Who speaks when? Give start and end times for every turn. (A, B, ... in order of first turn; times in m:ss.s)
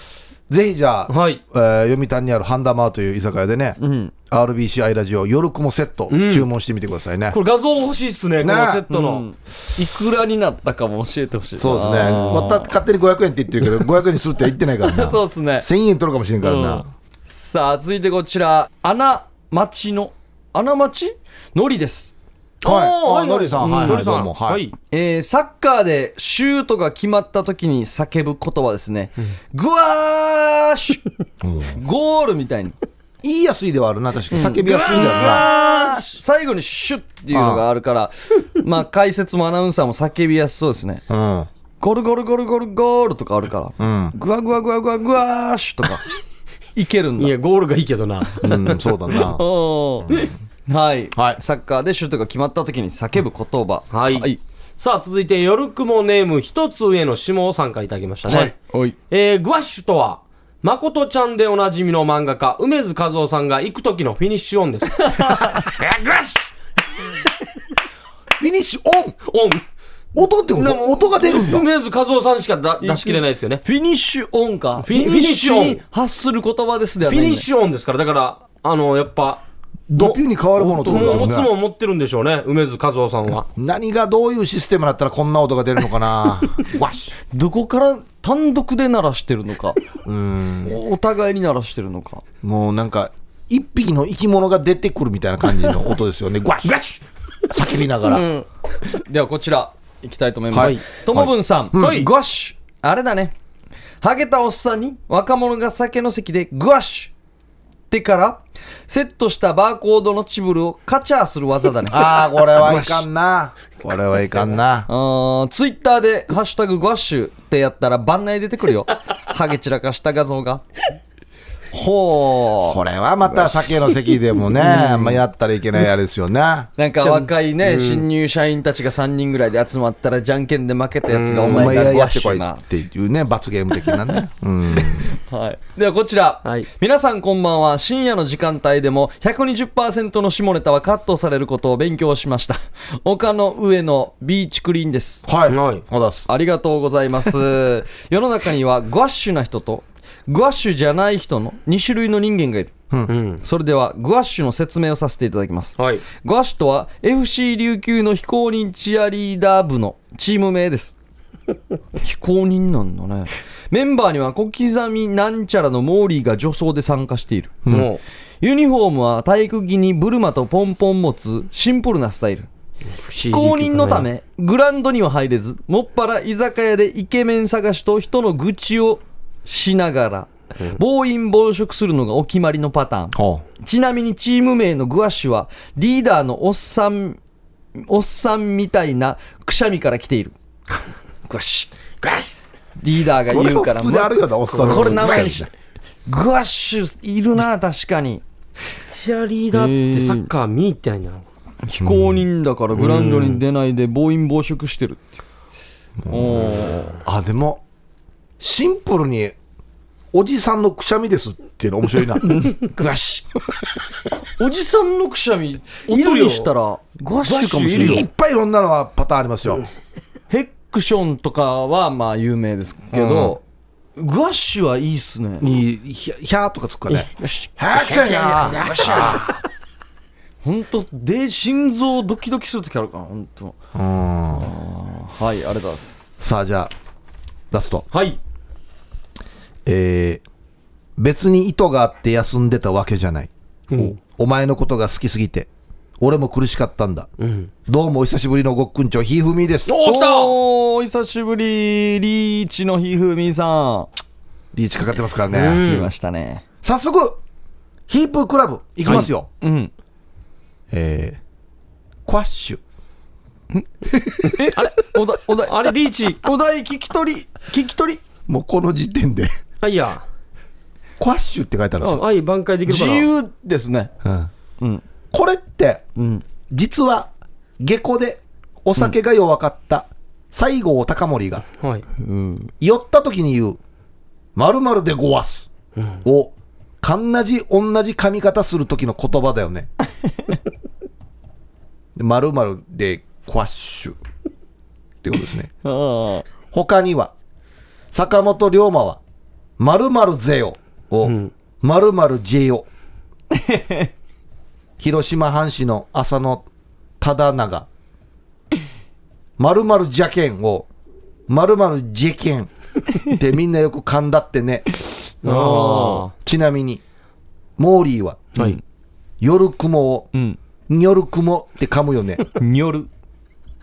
0:00.5-0:03.8 A
0:01.1-0:01.4 B
0:03.8-0:04.1 C
0:04.3-0:07.4 A
0:06.1-0:06.5 B
0:07.3-0:09.2 B
0:08.4-0:08.8 A
0:08.9-0:12.7 C
0:11.6-0:16.8 A
0:14.8-0:15.7 C
0:16.4-0:22.2 C
0:22.6-0:24.6 A
0:22.6-0:24.7 B
0:23.6-0:24.1 C
0:24.9-0:31.0 C
0:31.4-0:31.8 A
0:31.7-0:32.8 C
0:33.2-0:35.5 A
0:34.3-0:41.0 C
0:34.6-0:36.2 B
0:37.3-0:37.6 A
0:41.1-0:41.5 A
0:41.8-0:46.0 C
0:43.8-0:44.1 A
0:46.8-0:47.3 C
0:47.2-0:49.2 B
0:48.4-0:49.4 A
0:49.1-0:54.4 C
0:51.1-0:51.4 A
0:53.9-0:58.5 B
0:58.3-0:59.0 C
0:59.1-1:06.4 B
1:05.0-1:05.6 C
1:08.4-1:09.2 A
1:09.2-1:09.6 B
1:10.1-1:11.6 A
1:10.5-1:13.6 B
1:12.8-1:17.4 C
1:14.8-1:15.8 B
1:17.0-1:19.4 B
1:19.9-1:21.5 A
1:20.6-1:21.3 C
1:20.8-1:23.4 B
1:23.6-1:27.2 A
1:27.3-1:29.8 C
1:30.0-1:30.8 A
1:30.6-1:32.2 C
1:32.4-1:38.3 A
1:38.1-1:43.3 C
1:40.5-1:42.0 A
1:40.6-1:40.8 B
1:41.7-1:42.1 B
1:44.0-1:47.1 C
1:47.9-1:53.0 C
1:51.9-1:54.9 A
1:54.9-2:00.6 C
2:01.7-2:03.6 C
2:02.6-2:06.7 A
2:04.5-2:05.2 C
2:06.8-2:12.6 C
2:07.0-2:08.0 B
2:11.1-2:11.8 B
2:11.4-2:15.1 A
2:14.8-2:25.2 C
2:25.2-2:26.3 A
2:25.5-2:25.8 B
2:26.3-2:32.7 C
2:33.1-2:33.4 B
2:33.4-2:41.0 C
2:35.8-2:36.0 B
2:42.0-2:47.6 C
2:47.7-2:48.0 B
2:48.4-2:52.5 C
2:53.0-2:54.1 B
2:53.3-3:07.2 C
3:03.1-3:03.4 A
3:07.8-3:10.3 C
3:11.2-3:11.7 C
3:12.8-3:15.5 C
3:13.2-3:15.5 A
3:14.6-3:15.3 B
3:16.1-3:18.2 C
3:18.9-3:21.2 B
3:19.5-3:20.3 C
3:21.6-3:25.2 C
3:21.8-3:22.2 A
3:22.9-3:23.4 B
3:26.0-3:27.6 A
3:26.1-3:27.0 C
3:28.4-3:29.3 A
3:30.1-3:32.5 A
3:32.2-3:33.2 C
3:34.4-3:38.0 C
3:35.9-3:36.5 B
3:37.2-3:38.0 B
3:37.7-3:39.6 A
3:40.3-3:43.4 C
3:42.9-3:43.4 A
3:44.0-3:45.6 C
3:45.4-3:49.4 A
3:47.2-3:49.3 B
3:48.5-3:49.2 C
3:50.4-3:53.6 C
3:53.7-3:54.5 A
3:54.3-3:56.1 C
3:56.2-3:56.7 A
3:57.5-3:57.8 A
3:57.9-3:58.2 B
3:59.6-4:00.2 A
4:01.0-4:05.5 A
4:03.7-4:04.0 B
4:06.0-4:07.1 A
4:07.2-4:07.5 B
4:07.7-4:09.8 A
4:09.7-4:10.4 B
4:09.8-4:13.9 C
4:14.5-4:15.7 A
4:15.3-4:15.9 B
4:15.6-4:16.4 C
4:16.6-4:17.2 A
4:17.9-4:19.3 A
4:18.9-4:19.7 C
4:20.7-4:21.2 A
4:22.0-4:22.6 A
4:23.9-4:24.4 A
4:24.3-4:28.0 C
4:24.6-4:24.8 B
4:25.4-4:26.2 B
4:28.3-4:29.3 A
4:29.6-4:30.0 B
4:31.0-4:32.0 A
4:31.8-4:33.1 B
4:32.7-4:33.9 C
4:34.0-4:34.3 A
4:35.1-4:35.8 A
4:36.0-4:36.2 C
4:36.5-4:41.4 A
4:42.0-4:42.5 C
4:42.6-4:43.6 A
4:44.4-4:45.5 A
4:46.0-4:49.7 A
4:52.0-4:54.0 A
4:55.0-4:55.5 A
4:55.6-4:56.2 C
4:56.5-4:57.1 A
4:57.9-4:59.0 A
4:59.6-5:02.6 A
5:01.0-5:01.3 B
5:03.3-5:03.9 C
5:04.8-5:06.4 A
5:07.0-5:07.7 A
5:09.4-5:10.7 A
5:11.3-5:12.5 A
5:13.0-5:14.6 A
5:15.2-5:16.1 C
5:15.2-5:16.1 B
5:16.2-5:16.8 A
5:17.6-5:18.3 A
5:19.2-5:20.1 A
5:20.7-5:22.2 A
5:22.4-5:22.9 C